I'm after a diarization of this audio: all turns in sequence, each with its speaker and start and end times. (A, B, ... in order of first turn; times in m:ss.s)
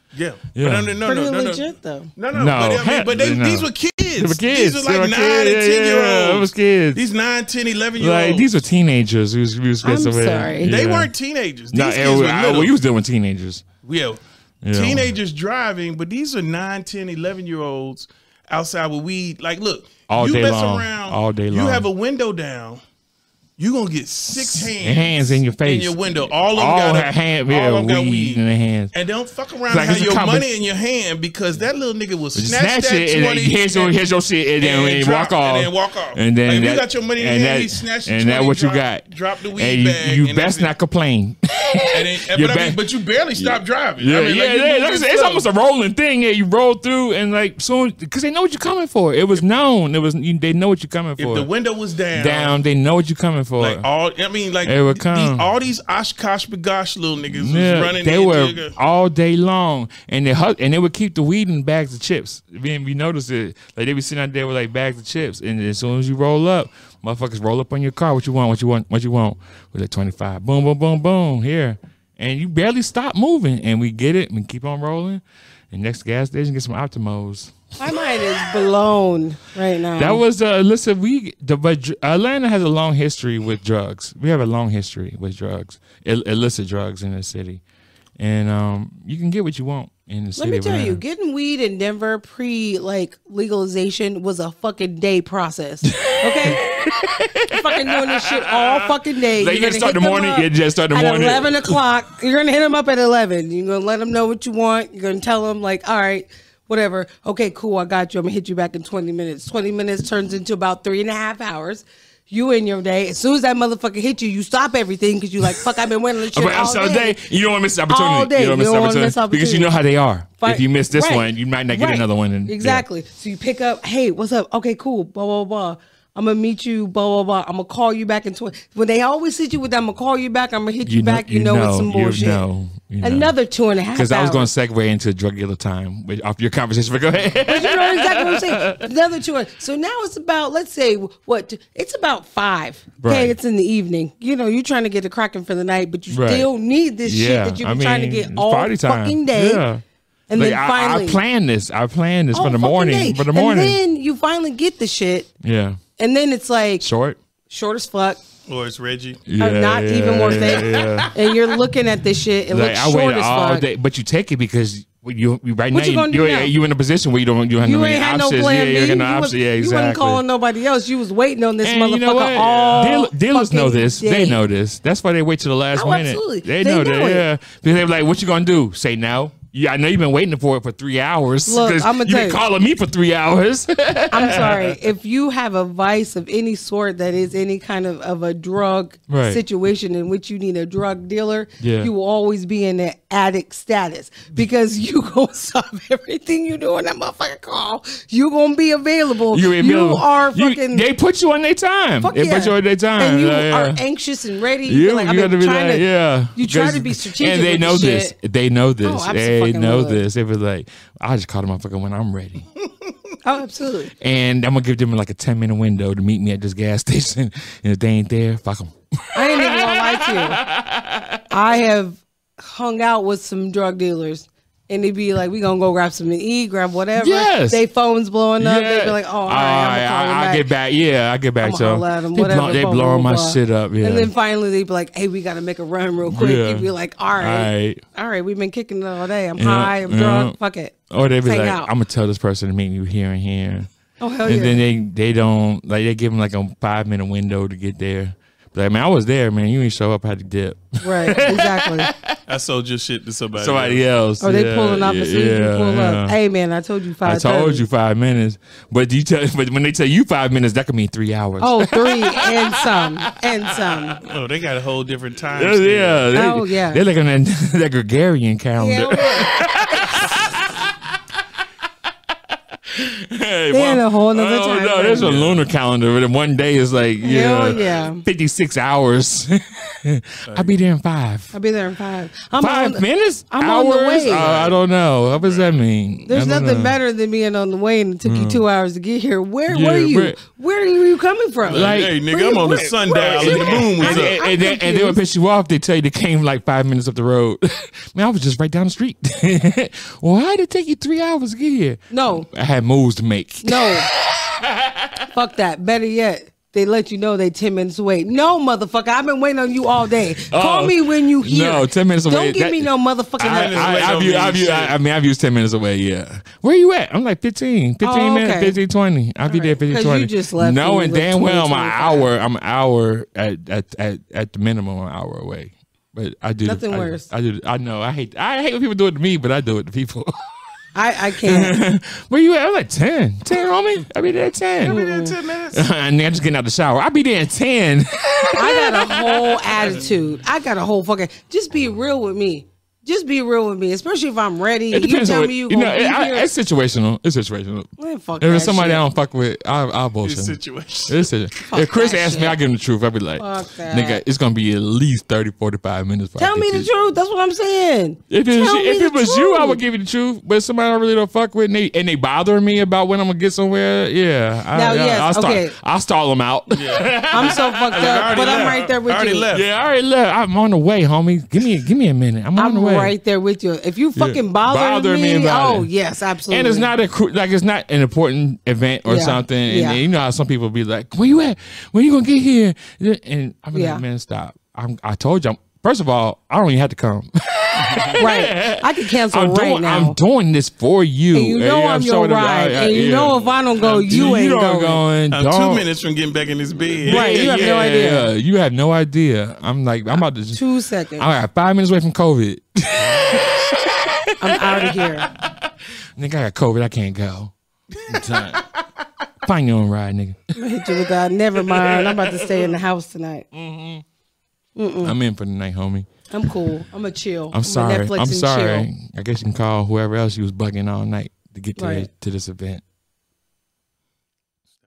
0:00.1-0:01.6 A
0:00.5-0:01.0 B
0:01.0-0:02.1 C
0:02.2-0:08.5 A
0:02.3-0:07.1 B
0:08.0-0:11.1 B
0:09.8-0:10.7 C
0:10.6-0:12.7 A
0:11.7-0:13.6 B
0:13.8-0:14.2 A
0:14.6-0:15.1 B
0:14.7-0:22.8 A
0:20.1-0:21.9 B
0:23.6-0:28.4 A
0:24.3-0:28.9 B
0:28.9-0:33.9 A
0:29.7-0:30.5 B
0:32.3-0:42.8 B
0:34.6-0:40.7 A
0:41.9-0:45.5 A
0:43.4-0:51.5 B
0:51.2-0:52.6 A
0:52.1-0:53.9 B
0:53.6-0:58.7 A
0:54.6-0:55.5 B
0:57.3-1:17.5 B
1:17.8-1:20.2 C
1:20.0-1:27.6 B
1:28.2-1:31.0 B
1:30.4-1:36.6 C
1:35.8-1:41.8 B
1:37.5-1:57.2 C
1:56.3-2:02.8 B
1:57.9-1:59.7 C
2:00.4-2:12.4 C
2:10.8-2:13.3 B
2:13.0-2:14.5 C
2:13.9-2:18.8 B
2:17.5-2:29.6 C
2:23.0-2:23.4 B
2:26.1-2:26.5 B
2:27.0-2:33.8 B
2:30.3-2:31.2 C
2:32.3-2:35.3 C
2:35.4-2:35.8 B
2:36.0-2:36.8 C
2:36.8-2:37.2 B
2:37.5-2:38.2 C
2:38.5-2:39.2 A
2:39.2-2:41.1 B
2:39.4-2:43.6 C
2:40.3-2:41.1 A
2:42.5-2:50.2 B
2:45.7-2:46.5 C
2:47.6-2:54.4 C
2:51.6-3:04.8 B
2:52.4-2:52.8 A
2:55.8-2:57.2 C
3:01.4-3:02.4 C
3:04.1-3:20.8 C
3:09.1-3:09.4 B
3:11.6-3:11.9 B
3:19.3-3:23.8 B
3:22.0-3:28.1 C
3:24.6-3:32.4 B
3:28.8-3:30.0 C
3:33.2-3:33.9 C
3:34.0-3:41.3 B
3:39.1-3:40.4 C
3:41.3-3:50.5 C
3:47.0-3:47.6 B
3:48.4-3:54.1 B
3:51.4-4:01.7 C
3:56.1-3:57.8 B
3:59.4-4:00.4 B
4:00.9-4:03.7 B
4:04.0-4:04.6 C
4:04.2-4:12.2 B
4:10.8-4:11.9 C
4:12.3-4:13.8 A
4:13.3-4:16.2 B
4:14.2-4:17.6 C
4:17.0-4:24.0 B
4:21.4-4:24.0 C
4:24.0-4:26.2 A
4:25.3-4:31.2 B
4:26.1-4:26.8 C
4:28.6-4:29.4 C
4:31.9-4:41.3 B
4:33.5-4:35.2 C
4:35.0-4:35.4 A
4:37.0-4:38.0 C
4:40.2-4:40.5 A
4:41.3-4:44.3 C
4:42.4-4:46.8 B
4:44.1-4:44.6 A
4:45.2-4:45.5 A
4:46.1-4:55.0 C
4:48.0-4:48.4 B
4:49.5-4:50.2 B
4:51.4-4:54.2 A
4:51.5-5:05.1 B
5:01.9-5:02.3 C
5:03.4-5:03.9 C
5:05.1-5:13.8 C
5:10.3-5:30.1 B
5:13.2-5:14.8 A
5:17.8-5:18.6 C
5:19.3-5:22.1 C
5:26.4-5:27.1 C
5:30.7-5:31.6 C
5:31.2-5:34.8 B
5:34.6-5:35.7 A
5:34.6-5:35.1 C
5:35.5-5:39.8 B
5:38.4-5:46.3 C
5:44.7-5:56.7 B
5:47.8-5:48.8 C
5:50.0-5:51.0 A
5:51.4-5:52.4 C
5:53.2-5:54.0 C
5:56.2-5:59.6 C
5:58.1-6:08.6 B
6:04.5-6:05.5 C
6:06.5-6:09.4 A
6:07.1-6:09.2 C
6:09.3-6:12.9 B
6:12.4-6:16.7 C
6:14.0-6:15.7 B
6:16.3-6:35.6 B
6:18.8-6:19.8 C
6:23.5-6:23.8 C
6:27.6-6:28.0 A
6:28.0-6:30.0 C
6:31.1-6:34.8 C
6:33.6-6:34.2 A
6:35.1-6:37.6 A
6:36.8-6:40.4 B
6:36.9-6:38.1 C
6:40.3-6:41.1 C
6:41.0-6:47.3 B
6:44.2-6:45.1 C
6:47.8-6:48.4 A
6:47.9-6:48.4 B
6:49.2-6:50.2 B
6:50.3-6:53.2 C
6:51.4-6:52.4 B
6:53.3-6:53.8 B
6:54.6-6:54.9 C
6:54.8-6:55.9 B
6:56.1-6:58.7 C
6:57.3-7:02.6 B
7:01.6-7:01.9 C